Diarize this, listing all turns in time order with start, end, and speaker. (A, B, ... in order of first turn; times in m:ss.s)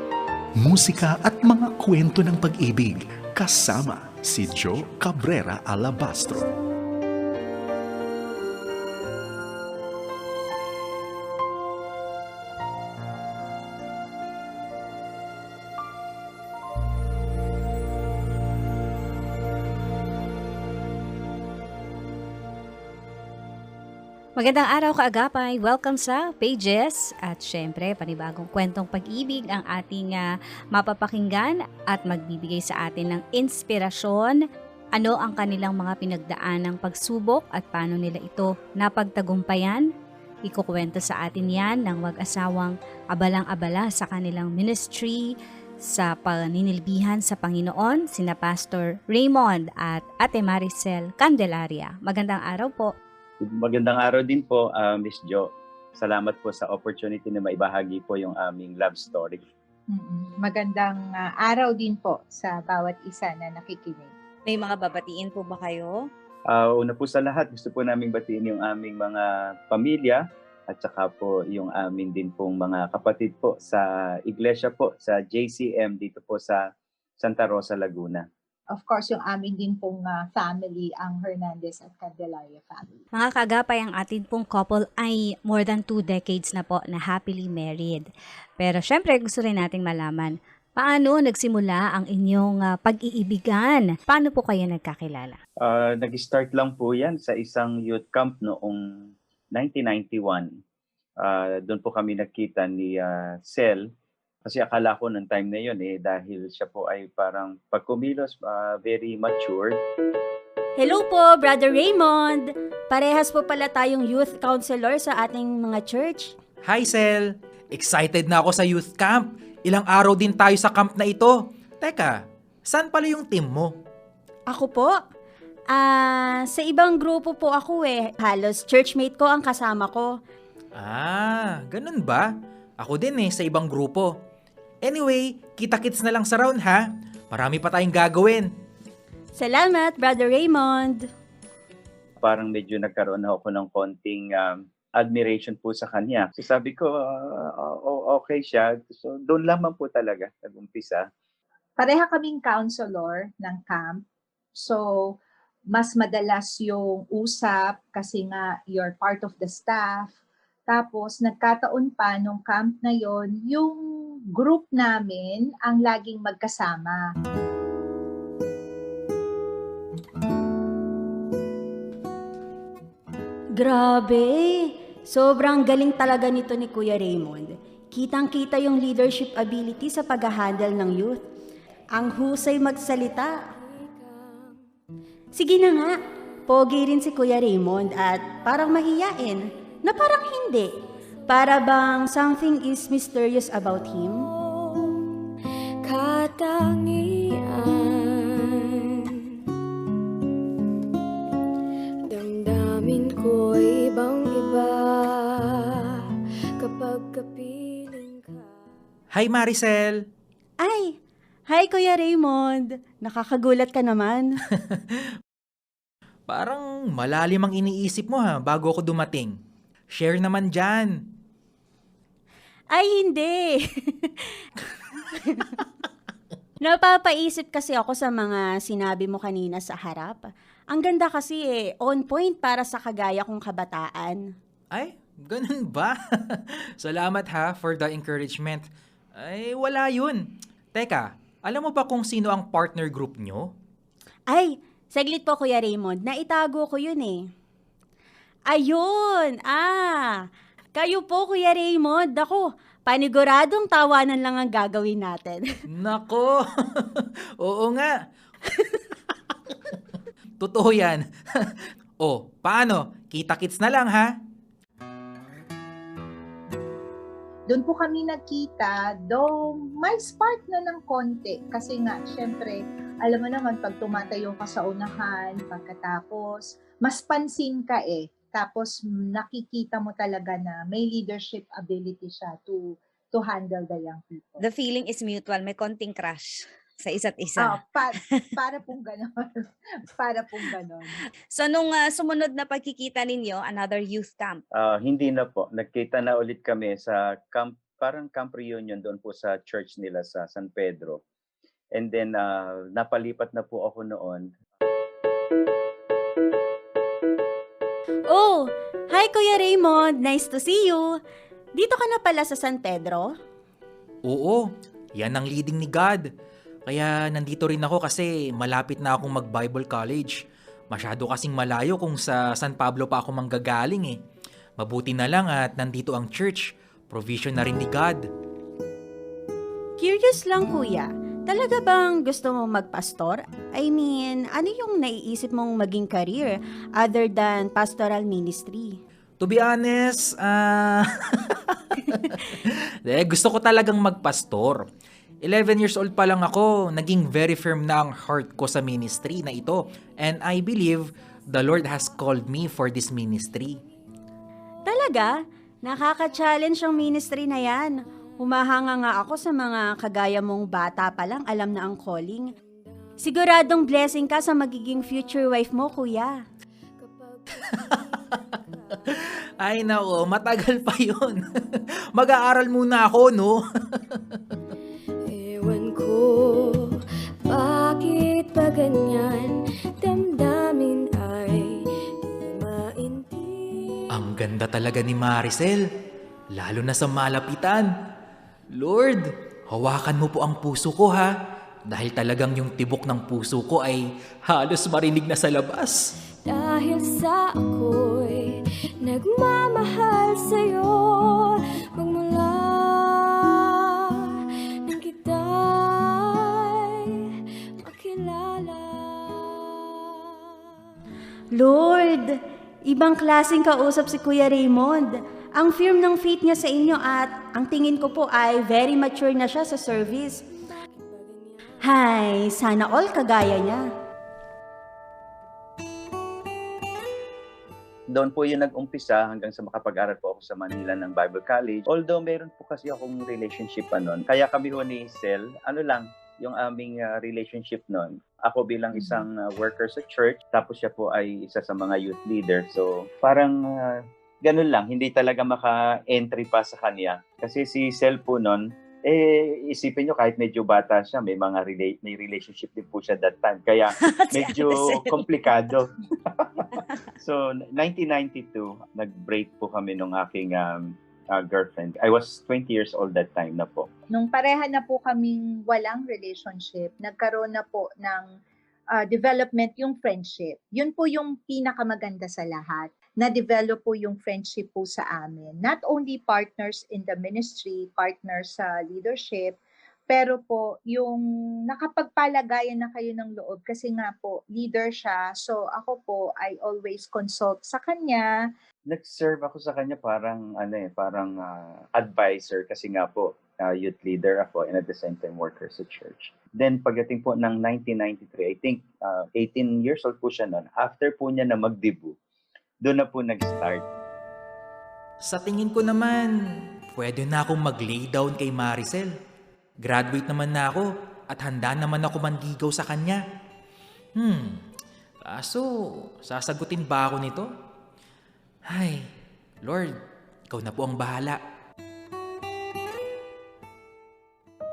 0:00.6-0:06.5 A
0:24.4-0:34.4 B
0:35.0-0:39.8 B
0:40.5-0:45.3 B
0:45.8-0:52.9 B
0:53.4-0:59.4 C
0:59.9-1:04.1 D
1:04.5-1:06.0 B
1:06.5-1:16.6 C
1:17.2-1:18.2 C
1:18.7-1:23.0 D
1:23.2-1:28.1 B
1:28.6-1:35.4 B
1:35.6-1:38.8 C
1:39.5-1:40.5 C
1:41.2-1:43.8 C
1:44.4-1:49.8 C
1:50.8-1:56.3 E
1:56.6-2:03.7 F
2:04.5-2:05.0 E
2:05.7-2:10.1 E
2:10.7-2:12.3 F
2:12.8-2:14.1 F
2:14.8-2:18.5 F
2:19.4-2:21.1 E
2:22.2-2:31.0 C
2:31.8-2:34.0 D
2:34.6-2:35.1 D
2:35.7-2:40.1 D
2:40.7-2:43.8 D
2:44.4-2:47.0 D
2:53.6-3:01.2 E
3:01.9-3:03.4 E
3:03.2-3:04.6 G
3:05.3-3:06.0 E
3:06.5-3:10.7 E
3:11.3-3:14.3 E
3:14.3-3:15.1 G
3:15.8-3:19.2 G
3:22.1-3:26.0 G
3:26.6-3:28.6 G
3:29.1-3:30.0 F
3:30.6-3:31.0 E
3:31.5-3:34.3 E
3:34.6-3:34.9 F
3:36.3-3:39.4 F
3:39.9-3:41.0 F
3:42.7-3:44.4 E
3:45.1-3:45.6 E
3:46.6-3:54.2 E
3:54.7-4:03.5 F
4:04.3-4:07.2 E
4:08.5-4:15.4 E
4:15.7-4:17.9 F
4:20.4-4:24.1 F
4:27.5-4:44.4 D
4:44.4-4:48.3 B
4:47.4-4:51.0 D
4:51.3-4:54.4 B
4:54.5-5:01.0 C
5:01.8-5:04.3 C
5:08.1-5:10.9 E
5:11.6-5:13.1 E
5:14.0-5:16.1 F
5:16.6-5:20.2 F
5:20.7-5:24.0 F
5:24.6-5:28.1 F
5:29.8-5:38.8 E
5:39.2-5:44.7 F
5:45.2-5:53.6 F
5:54.7-5:55.1 E
5:55.6-6:02.3 E
6:02.3-6:03.2 G
6:03.0-6:06.2 E
6:06.8-6:08.6 G
6:08.9-6:14.2 F
6:15.1-6:24.0 G
6:23.9-6:25.6 F
6:26.3-6:27.7 F
6:28.5-6:31.1 F
6:31.7-6:35.8 F
6:36.2-6:47.0 G
6:47.6-6:50.2 G
6:51.3-7:00.2 E
7:00.5-7:01.7 G
7:01.6-7:03.6 E
7:07.9-7:43.7 C
7:33.8-7:35.1 B
7:43.9-7:48.1 D
7:48.7-7:59.4 D
7:59.9-8:08.1 D
8:08.7-8:21.9 C
8:22.6-8:23.6 C
8:25.0-8:26.1 F
8:26.7-8:28.9 F
8:29.6-8:33.0 F
8:34.0-8:34.4 F
8:35.0-8:37.3 F
8:38.5-8:38.9 F
8:39.4-8:41.2 F